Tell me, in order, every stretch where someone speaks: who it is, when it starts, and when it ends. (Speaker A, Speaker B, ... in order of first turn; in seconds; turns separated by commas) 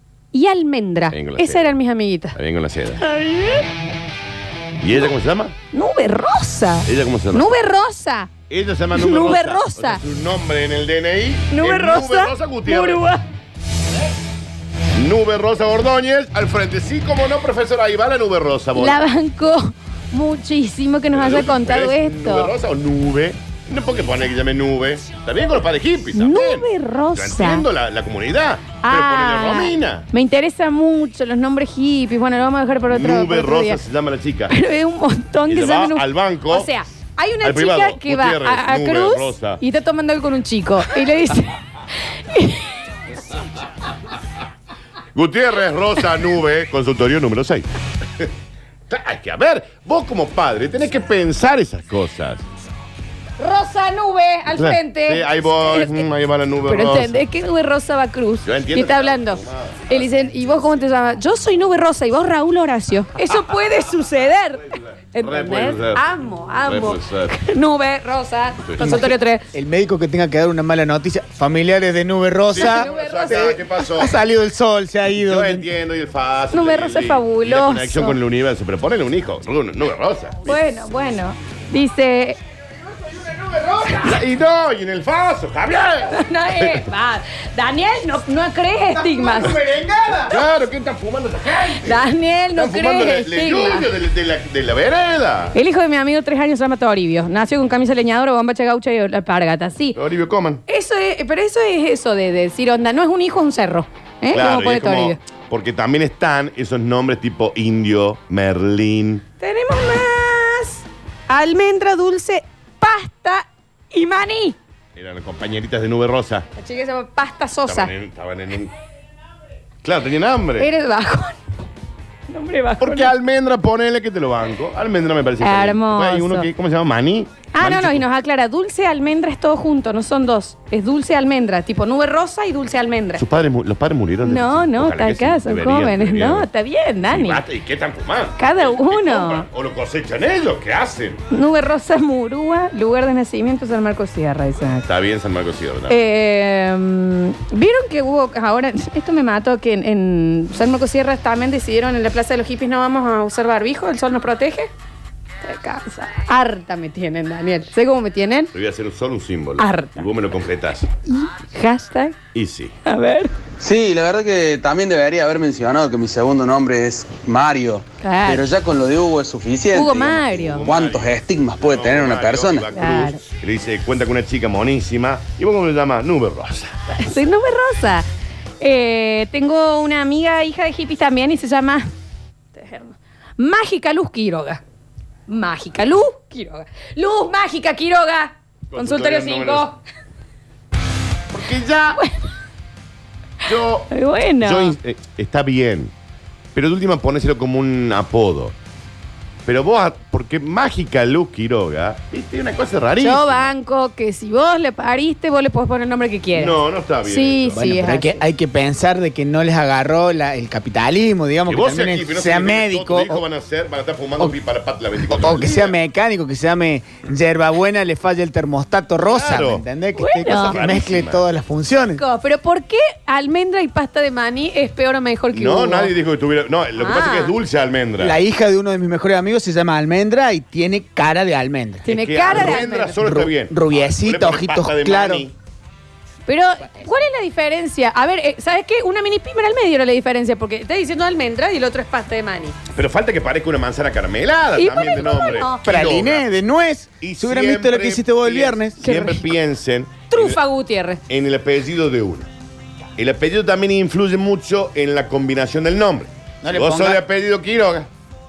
Speaker A: 0.3-2.4, Speaker B: 1.1-1.7, Speaker B: 2.3-3.0, Speaker A: 3.0-3.6, Speaker B: 4.8-5.5, Speaker A: 5.7-8.3, Speaker B: 6.9-7.5, Speaker B: 8.5-13.0, Speaker A: 8.9-10.0, Speaker A: 11.5-13.2, Speaker B: 14.9-19.0, Speaker A: 18.8-22.5, Speaker B: 21.1-30.1, Speaker A: 26.1-27.6, Speaker A: 28.8-33.8, Speaker B: 32.9-34.5, Speaker A: 34.5-41.5, Speaker B: 35.5-36.7, Speaker B: 37.4-39.6, Speaker A: 42.3-42.7, Speaker B: 45.1-47.7, Speaker B: 48.9-52.4, Speaker A: 53.4-56.0, Speaker B: 54.6-57.2, Speaker A: 56.7-69.4, Speaker B: 58.4-60.5, Speaker B: 65.2-66.0, Speaker B: 66.6-67.3, Speaker B: 68.6-69.0, Speaker C: 69.5-75.7, Speaker B: 72.5-74.2, Speaker A: 72.5-73.8, Speaker B: 75.2-80.6, Speaker A: 76.5-78.2, Speaker A: 80.5-82.4, Speaker B: 83.5-86.8, Speaker A: 86.1-89.6, Speaker B: 89.3-92.0, Speaker A: 91.8-93.9, Speaker B: 92.5-95.5, Speaker A: 95.5-100.0, Speaker B: 99.9-100.6, Speaker A: 100.7-105.2, Speaker B: 104.3-109.2, Speaker A: 109.4-114.6, Speaker B: 114.9-116.5, Speaker A: 116.6-117.9, Speaker B: 117.7-118.7, Speaker B: 119.8-120.7, Speaker A: 120.6-121.3, Speaker A: 122.3-123.1, Speaker B: 122.8-128.0, Speaker A: 125.4-126.5, Speaker A: 127.5-133.2, Speaker B: 133.2-136.5, Speaker A: 134.2-137.4, Speaker B: 137.1-141.2, Speaker A: 138.4-139.4, Speaker A: 141.3-144.8, Speaker B: 144.8-146.0, Speaker A: 145.9-154.7, Speaker A: 155.4-158.5, Speaker B: 158.5-160.9, Speaker A: 159.6-160.0, Speaker A: 161.1-162.2, Speaker B: 162.3-162.7, Speaker A: 162.8-163.3, Speaker D: 163.6-172.7, Speaker A: 168.0-168.5, Speaker A: 169.7-170.6, Speaker B: 170.4-176.8, Speaker A: 172.7-173.2, Speaker A: 176.9-178.1, Speaker A: 178.6-181.9, Speaker A: 182.5-184.6, Speaker A: 185.3-189.8, Speaker B: 188.7-189.7, Speaker B: 191.3-192.0, Speaker B: 193.4-193.9, Speaker A: 193.9-194.8, Speaker B: 194.4-195.9, Speaker B: 196.5-198.5, Speaker B: 199.4-203.5, Speaker A: 203.0-206.5, Speaker B: 206.3-207.6, Speaker A: 207.1-208.2, Speaker C: 207.5-213.2, Speaker B: 211.5-215.7, Speaker C: 215.1-222.0, Speaker B: 219.0-219.6, Speaker A: 219.9-220.6, Speaker B: 220.3-221.2, Speaker A: 222.0-225.9, Speaker B: 225.3-228.2, Speaker A: 226.8-227.3, Speaker C: 228.0-235.2, Speaker A: 231.8-232.9, Speaker B: 231.9-235.3, Speaker A: 236.3-242.6, Speaker B: 242.7-246.2, Speaker A: 244.6-245.6, Speaker C: 245.6-248.8, Speaker B: 247.0-250.4, Speaker A: 248.8-249.2, Speaker A: 250.1-251.0, Speaker B: 251.1-252.3, Speaker B: 253.0-257.9, Speaker C: 256.4-257.0